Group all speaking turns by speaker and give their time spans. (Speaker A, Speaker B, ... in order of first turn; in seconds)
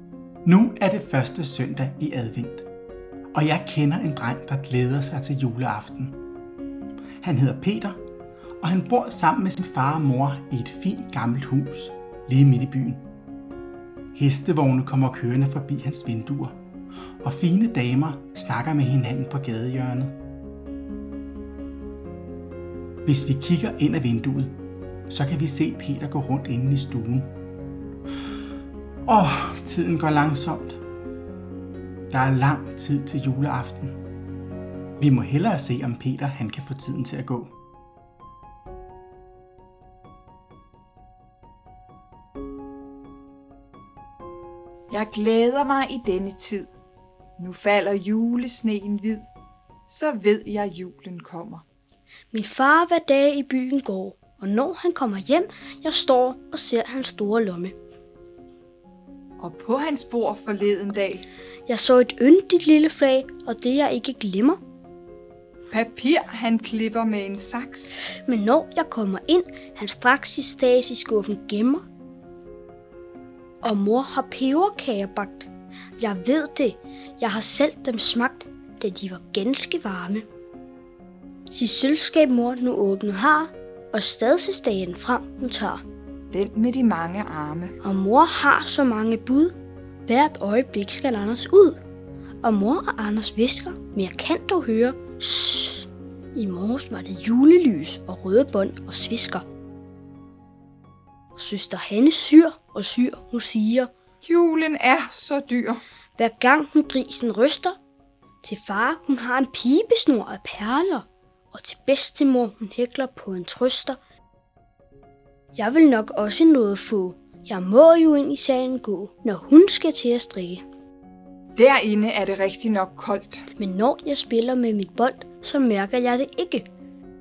Speaker A: 0.5-2.7, 3.3-6.3, 7.2-8.0, 8.6-13.1, 14.1-16.6, 17.2-20.2, 23.1-27.4, 29.1-30.8, 32.1-34.1, 35.0-37.6
Speaker B: 44.9-46.7, 47.4-49.2, 49.9-51.6, 59.4-61.2, 65.7-68.0, 86.3-87.8, 104.2-105.8, 121.6-123.4
Speaker C: 52.3-57.8, 61.7-64.6, 68.1-71.9, 73.6-80.3, 81.5-85.8, 87.8-89.5, 90.1-91.8, 92.4-99.5, 101.4-103.9, 106.2-107.8, 108.4-114.0, 115.5-120.6, 123.6-126.7